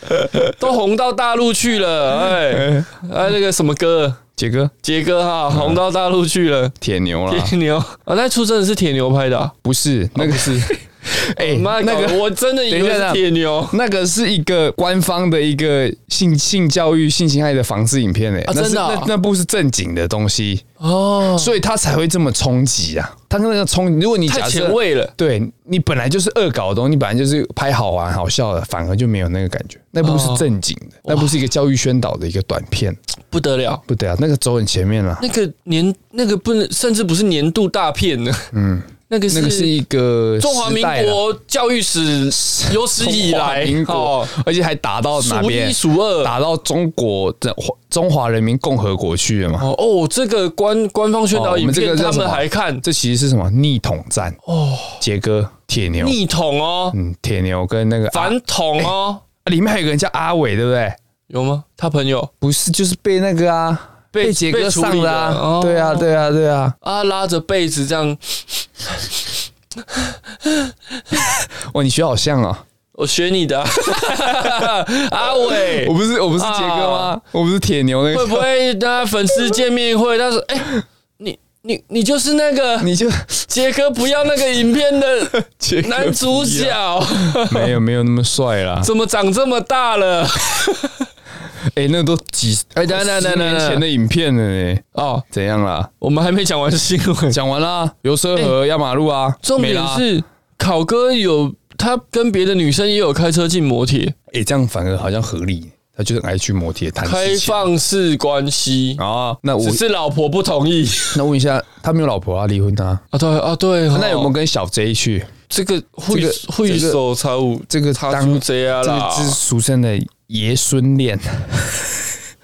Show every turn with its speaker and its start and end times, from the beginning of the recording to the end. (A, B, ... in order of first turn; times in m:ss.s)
0:00.5-0:04.2 A
0:02.4-0:02.9 B
0:04.4-0:04.7 B
0:04.8-0:06.7 A
0:05.5-0:05.8 B
0:06.8-0:07.5 B
0:07.3-0:09.5 A
0:09.6-0:20.6 B
0:10.1-0:10.8 A
0:11.3-0:13.8 A
0:18.4-0:19.1 A
0:20.8-0:21.6 A
0:21.2-0:33.0 B
0:24.3-0:25.1 A
0:30.0-0:30.4 A
0:31.0-0:31.4 A
0:33.3-0:33.8 A
0:33.9-0:35.2 B
0:35.2-0:38.5 A
0:38.5-0:41.2 B
0:39.1-0:39.7 A
0:40.4-0:44.3 A
0:42.3-0:49.7 B
0:45.2-0:46.3 A
0:49.6-0:52.8 A
0:51.3-0:54.4 B
0:54.4-0:55.0 A
0:55.0-0:56.2 B
0:56.0-0:57.0 A
0:56.9-0:58.9 B
0:58.1-0:59.2 A
0:59.4-1:01.0 B
1:01.3-1:02.3 A
1:02.4-1:06.8 B
1:04.1-1:06.1 A
1:06.8-1:11.2 A
1:11.7-1:12.6 B
1:12.9-1:17.1 A
1:15.5-1:18.5 B
1:18.1-1:22.9 A
1:22.8-1:23.4 B
1:23.5-1:27.7 A
1:25.4-1:28.9 B
1:28.8-1:31.1 A
1:31.7-1:35.9 B
1:32.8-1:33.8 A
1:34.9-1:35.2 A
1:36.0-1:37.4 A
1:37.3-1:40.1 B
1:39.4-1:44.1 A
1:44.3-1:47.6 B
1:47.0-1:49.0 A
1:49.0-1:49.8 B
1:49.6-1:51.2 A
1:51.1-1:53.0 B
1:53.1-1:54.3 A
1:53.9-1:55.3 B
1:55.5-1:59.4 A
1:56.1-1:57.0 B
1:57.7-2:01.9 B